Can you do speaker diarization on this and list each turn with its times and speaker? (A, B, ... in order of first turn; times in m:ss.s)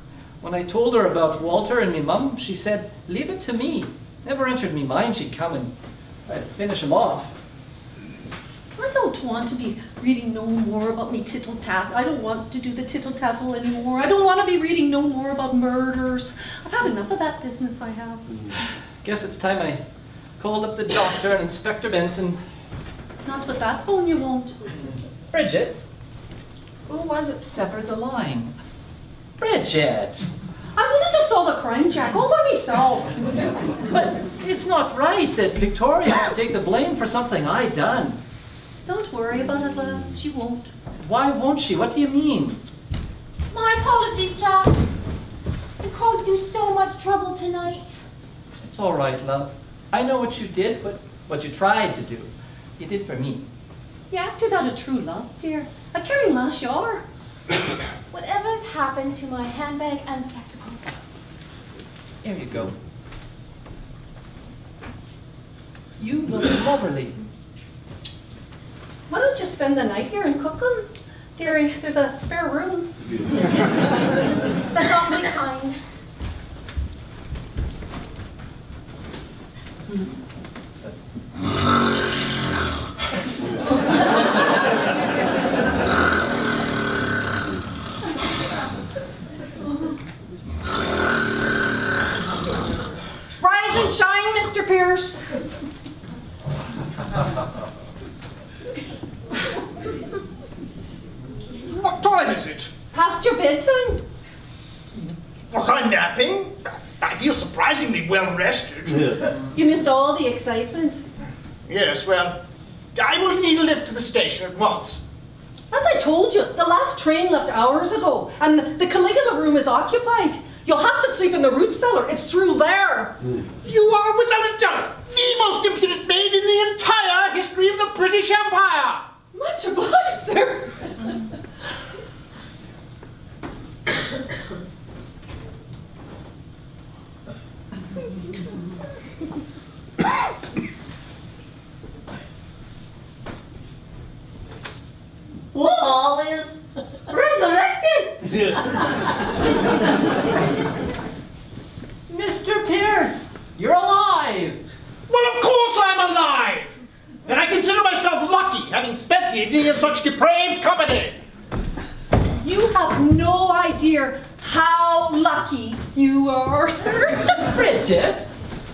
0:00.4-0:05.7 A
0:06.3-0:07.3 A
0:08.8-0:18.3 B
0:19.0-0:19.8 A
0:20.4-0:22.4 A
0:23.2-0:24.6 B
0:25.3-0:25.8 A
0:26.9-0:28.6 A
0:29.4-0:30.3 A
0:30.8-0:33.3 B
0:33.9-0:38.2 A
0:38.9-0:40.7 B
0:41.0-0:42.6 A
0:43.5-0:44.8 C
0:45.8-0:48.0 C
0:48.6-0:53.5 A
0:54.1-0:57.0 B
0:58.1-1:01.0 C
1:02.2-1:02.8 A
1:06.0-1:07.2 A
1:09.1-1:12.9 B
1:14.7-1:15.8 C
1:33.4-1:35.3 B
1:41.6-1:42.7 D
1:42.9-1:44.0 B
1:45.5-1:49.3 D
1:49.5-1:51.0 B
1:51.7-1:52.4 D
1:53.0-1:55.0 D
1:55.7-2:03.2 B
2:03.6-2:09.1 D
2:09.3-2:10.9 B
2:25.5-2:28.8 E
2:32.1-2:34.6 A
2:35.1-2:41.2 D
2:42.4-2:47.4 B
2:47.4-2:48.3 A